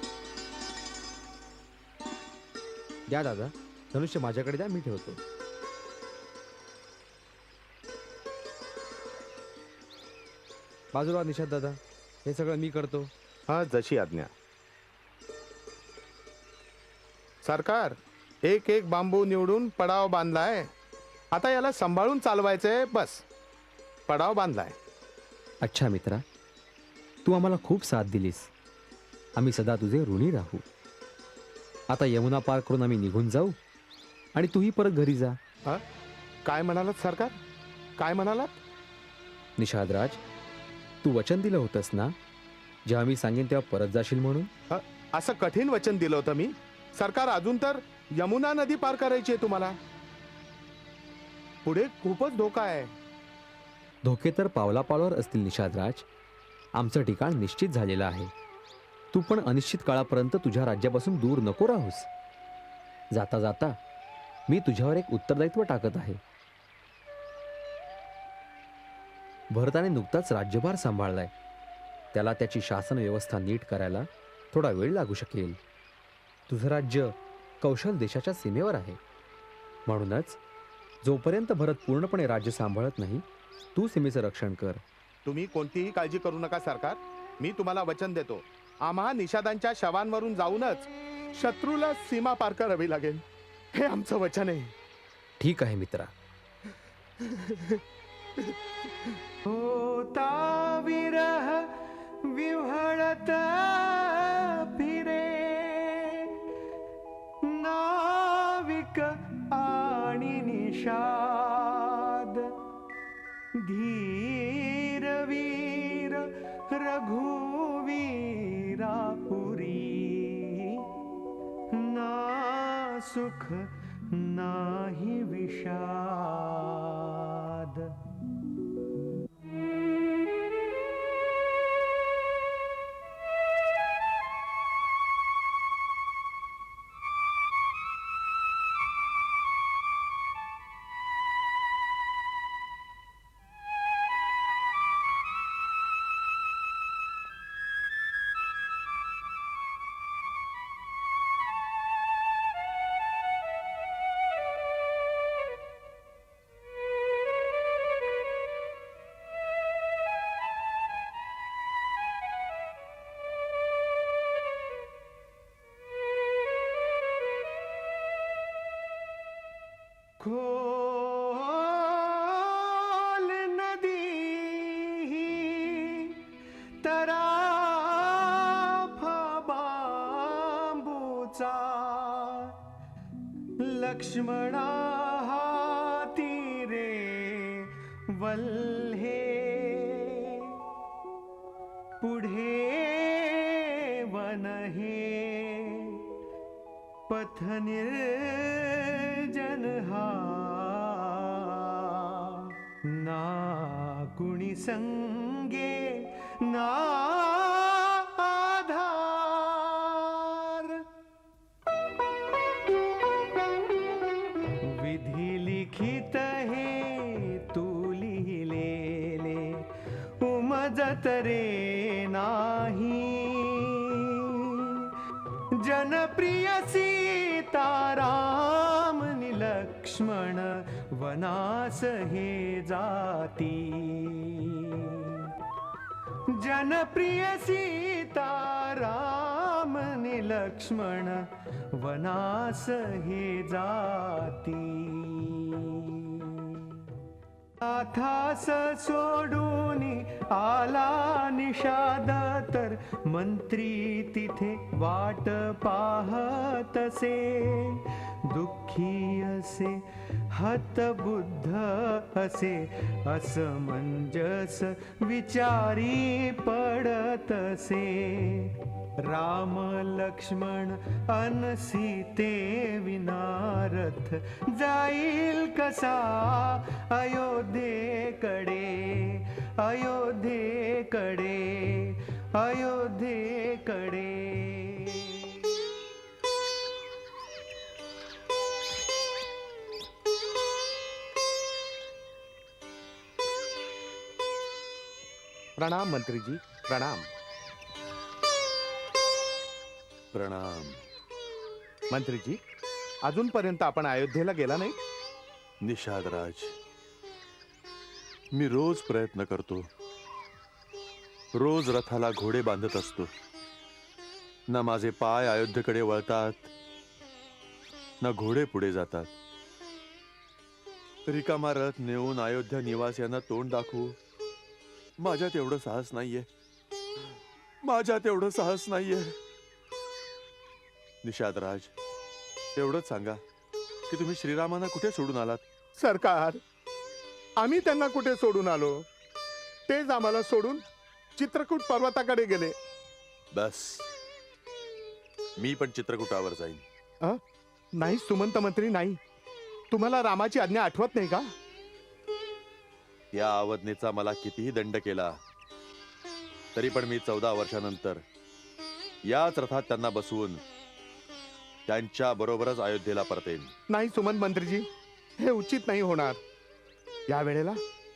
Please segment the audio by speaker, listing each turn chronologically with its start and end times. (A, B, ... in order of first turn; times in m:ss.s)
0:03.1-0:05.2 A
0:10.9-0:13.1 A
0:13.5-0:14.3 B
0:17.4-0:20.7 B
0:21.3-0:23.2 B
0:24.1-0:24.8 B
0:25.6-0:26.2 A
0:27.2-0:28.5 A
0:29.4-0:30.6 A
0:31.9-0:33.6 A
0:34.4-0:35.4 A
0:36.4-0:37.4 B
0:38.0-0:38.6 B
0:39.6-0:40.2 A
0:41.0-0:42.2 A
0:42.8-0:44.5 A
0:44.7-0:49.8 B
0:51.6-0:52.9 B
0:54.0-0:56.1 A
0:56.8-0:58.3 A
0:59.1-1:02.1 A
1:03.1-1:03.8 A
1:04.5-1:06.2 A
1:09.5-1:11.3 A
1:12.1-1:15.6 A
1:16.5-1:19.0 A
1:19.9-1:20.4 A
1:21.0-1:24.8 A
1:25.2-1:34.7 B
1:35.4-1:36.1 A
1:37.2-1:37.8 B
1:38.4-1:39.2 B
1:39.5-1:41.7 C
1:42.3-1:46.3 C
1:47.4-1:52.5 C
1:53.6-2:00.9 C
2:01.7-2:07.9 C
2:50.2-2:56.2 C
2:56.8-3:02.5 C
3:03.6-3:10.6 C
3:12.0-3:16.0 C
3:17.1-3:30.8 C
3:34.7-3:39.6 C
3:40.2-3:43.9 C
3:45.6-3:55.3 C
3:56.3-4:01.2 C
4:01.8-4:06.9 C
4:07.6-4:17.8 C
4:18.3-4:19.8 C
4:20.4-4:28.5 C
4:29.0-4:45.5 C
4:55.6-4:57.1 B
5:00.1-5:00.8 D
5:01.9-5:02.4 B
5:03.0-5:04.8 B
5:05.6-5:06.5 D
5:08.3-5:09.7 D
5:11.3-5:13.1 D
5:14.5-5:16.5 D
5:18.0-5:19.1 D
5:21.1-5:24.0 D
5:25.0-5:26.3 D
5:27.6-5:29.2 D
5:31.0-5:31.7 D
5:32.6-5:33.2 D
5:33.9-5:35.4 D
5:35.8-5:36.4 B
5:37.4-5:38.8 B
5:39.7-5:40.6 B
5:41.2-5:42.6 B
5:43.3-5:43.9 D
5:45.4-5:46.6 D
5:47.8-5:49.0 B
5:49.7-5:51.3 B
5:53.1-5:55.2 D
5:56.6-5:58.0 D
5:59.1-6:00.4 D
6:01.7-6:03.5 D
6:03.7-6:04.7 B
6:05.2-6:06.2 B
6:07.1-6:07.6 B